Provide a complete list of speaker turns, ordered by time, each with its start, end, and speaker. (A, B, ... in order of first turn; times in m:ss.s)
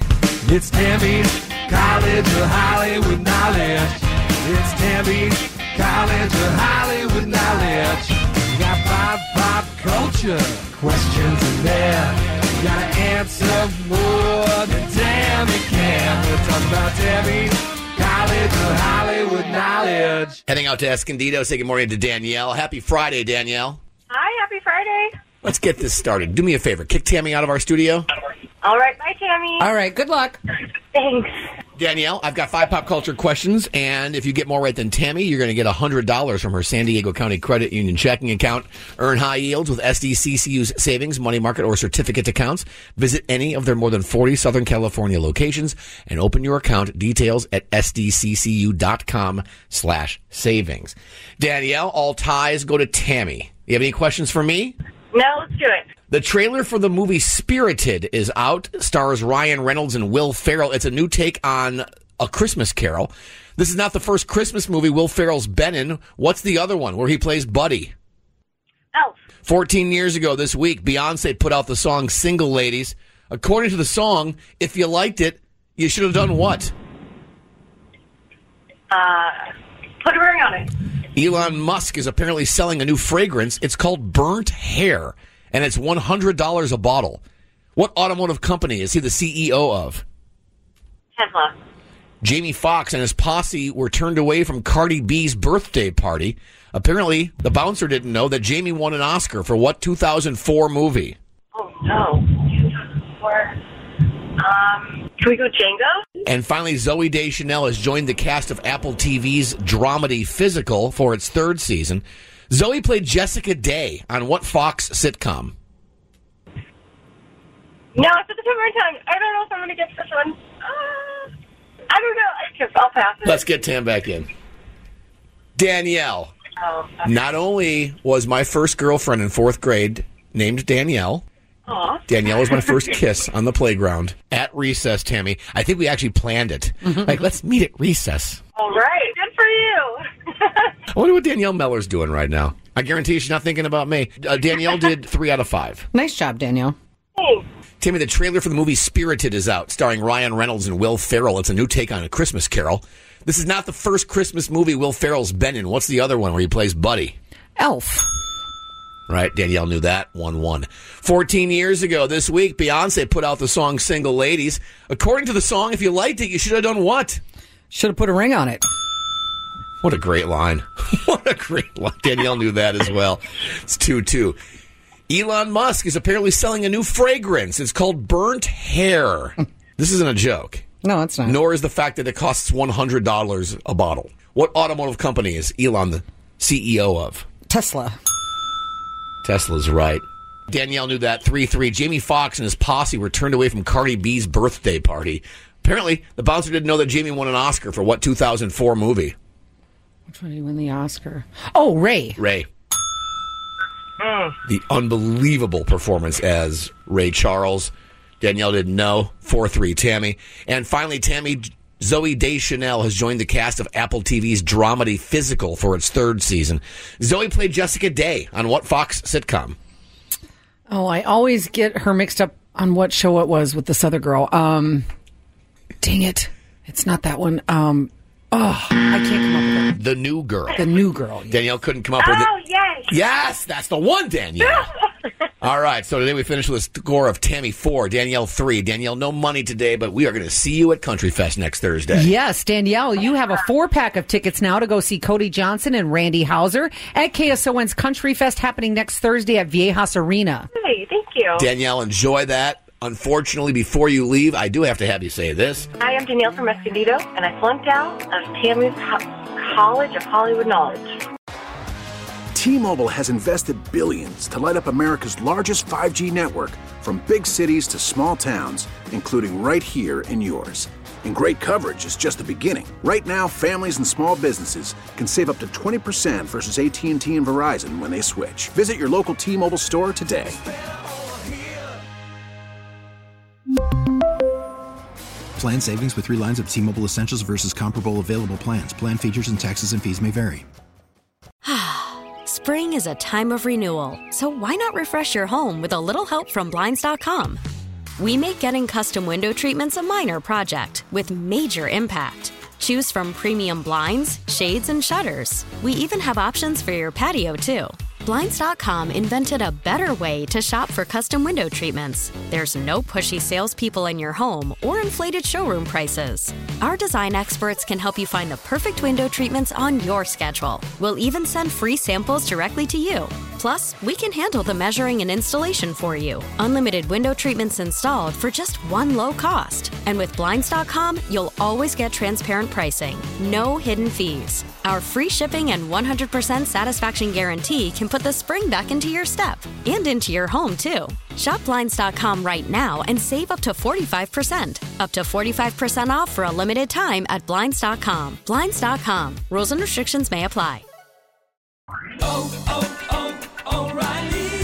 0:00.4-0:20.4 A
0:20.5-0:23.8 B
0:24.1-0:25.2 C
0:25.4-0:28.1 B
0:28.6-0:29.6 C
0:29.6-0:30.4 D
0:30.7-0:31.4 C
0:31.8-0:54.7 B
0:55.1-0:55.9 C
0:56.1-1:07.9 B
1:09.4-1:16.7 B
1:18.9-1:20.7 C
1:21.1-1:27.2 B
1:27.8-1:30.0 B
1:31.2-1:31.5 C
1:32.2-1:41.1 B
1:41.5-1:43.6 C
1:44.4-1:46.0 C
1:46.2-1:55.5 B
1:57.9-2:01.3 C
2:01.9-2:03.4 C
2:03.2-2:04.3 B
2:05.6-2:06.3 B
2:06.6-2:07.1 C
2:07.0-2:11.2 B
2:11.7-2:12.1 C
2:12.1-2:18.4 B
2:18.6-2:20.7 C
2:20.9-2:25.9 B
2:25.9-2:26.8 D
2:27.2-2:27.5 C
2:27.8-2:37.2 B
2:37.6-2:38.1 D
2:39.1-2:47.2 B
2:47.7-2:48.6 D
2:49.8-2:54.4 B
2:55.1-3:00.6 B
3:00.8-3:01.4 D
3:01.2-3:07.2 B
3:07.5-3:08.0 D
3:09.2-3:19.1 B
3:20.1-3:22.2 D
3:22.2-3:22.5 B
3:24.0-3:24.3 C
3:24.4-3:39.6 B
3:40.7-3:44.8 D
3:45.8-3:49.8 D
3:49.8-3:50.6 B
3:50.5-3:51.4 D
3:51.3-3:52.3 B
3:52.0-3:53.0 C
3:52.9-3:54.7 B
3:54.4-3:54.7 C
3:55.4-4:02.1 B
4:01.9-4:10.5 D
4:10.5-4:11.4 C
4:11.3-4:15.7 B
4:15.8-4:21.0 C
4:22.3-4:40.4 E
4:45.4-4:50.4 F
4:51.4-4:57.4 G
4:58.0-5:50.6 G
5:54.0-5:54.2 A